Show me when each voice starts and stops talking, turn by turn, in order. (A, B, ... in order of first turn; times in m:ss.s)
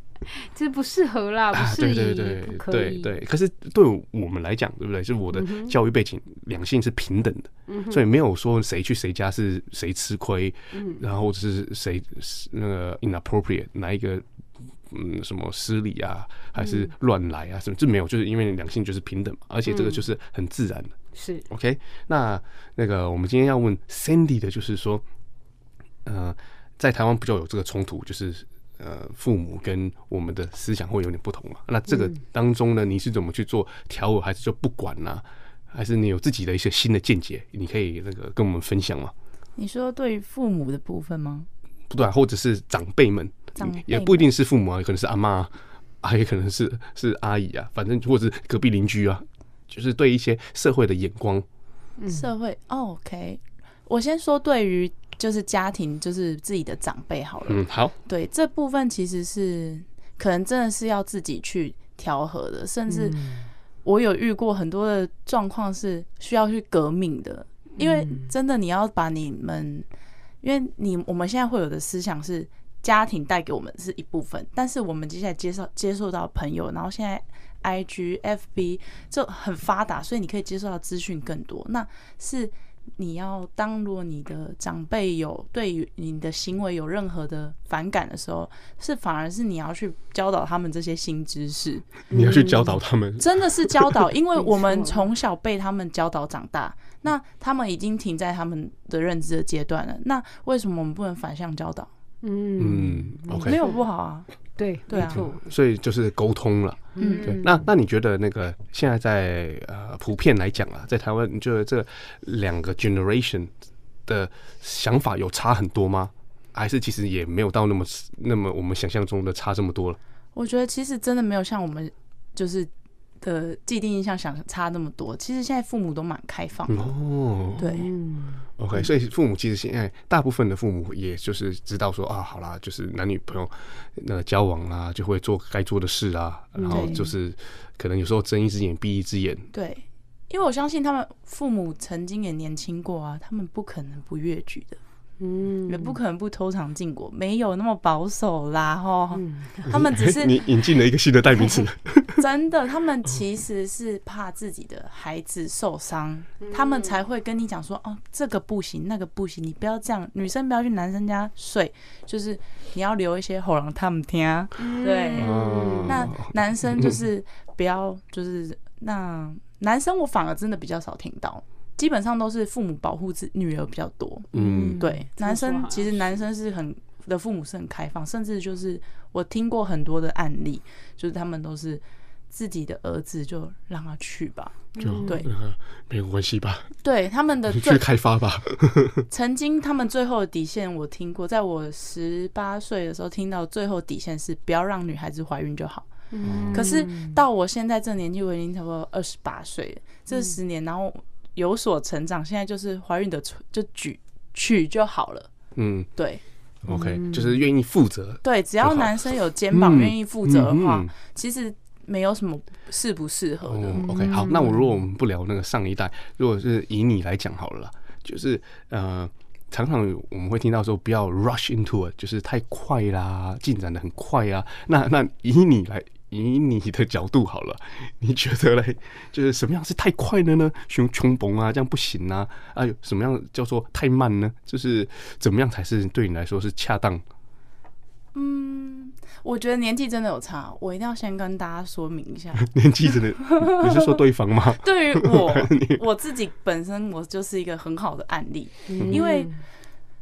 0:00.2-0:03.2 A
0:01.5-0:14.2 B
0:05.3-0:05.8 A
0:07.7-0:08.1 A
0:10.7-0:11.0 A
0:14.9-0:20.9 B
0:16.6-0:16.9 A
0:19.6-0:20.1 A
0:21.1-0:21.4 A
0:21.5-0:25.0 B
0:26.0-0:39.1 B
0:31.9-0:32.2 A
0:39.6-0:41.5 C
0:41.9-0:51.4 B
0:43.6-0:44.3 C
0:52.0-0:52.3 A
0:52.1-1:03.2 C
0:57.5-0:57.9 B
1:02.9-1:03.5 A
1:03.8-1:09.8 C
1:07.8-1:08.3 A
1:10.4-1:31.9 C
1:32.1-1:32.8 A
1:32.1-1:34.1 B
1:33.2-1:41.9 C
1:34.3-1:35.0 A
1:42.2-1:43.8 A
1:42.6-1:43.6 B
1:43.4-1:44.3 C
1:44.6-1:45.4 A
1:44.9-1:45.2 C
1:44.9-1:53.5 B
1:47.0-1:47.7 A
1:47.0-1:47.4 C
1:54.0-2:00.0 B
2:00.3-2:02.7 C
2:03.2-2:06.9 C
2:06.7-2:07.7 B
2:07.6-2:07.9 C
2:07.6-2:08.4 A
2:08.6-2:19.5 B
2:16.6-2:17.1 A
2:16.7-2:17.1 C
2:19.5-2:24.8 C
2:25.2-2:26.0 A
2:25.7-2:30.4 C
2:29.1-2:29.7 A
2:29.7-2:32.2 B
2:31.3-2:31.6 A
2:32.2-3:05.3 C
2:36.4-2:37.0 A
2:44.6-2:46.1 A
2:45.2-2:47.0 B
2:54.3-2:54.8 B
2:54.3-2:56.0 A
3:04.8-3:05.2 A
3:04.8-3:06.7 B
3:06.8-3:07.8 C
3:07.5-3:09.0 B
3:09.1-3:15.9 C
3:16.1-3:17.2 A
3:16.2-3:16.7 B
3:16.5-3:25.3 C
3:25.6-3:25.9 B
3:26.0-3:26.2 C
3:26.6-3:30.9 B
3:26.7-3:27.3 A
3:28.2-3:33.9 C
3:33.4-3:57.0 B
3:33.8-3:34.6 A
3:58.1-4:02.5 C
4:02.4-4:05.8 B
4:03.3-4:04.0 C
4:04.6-4:09.3 C
4:08.7-4:09.4 A
4:08.8-4:09.0 B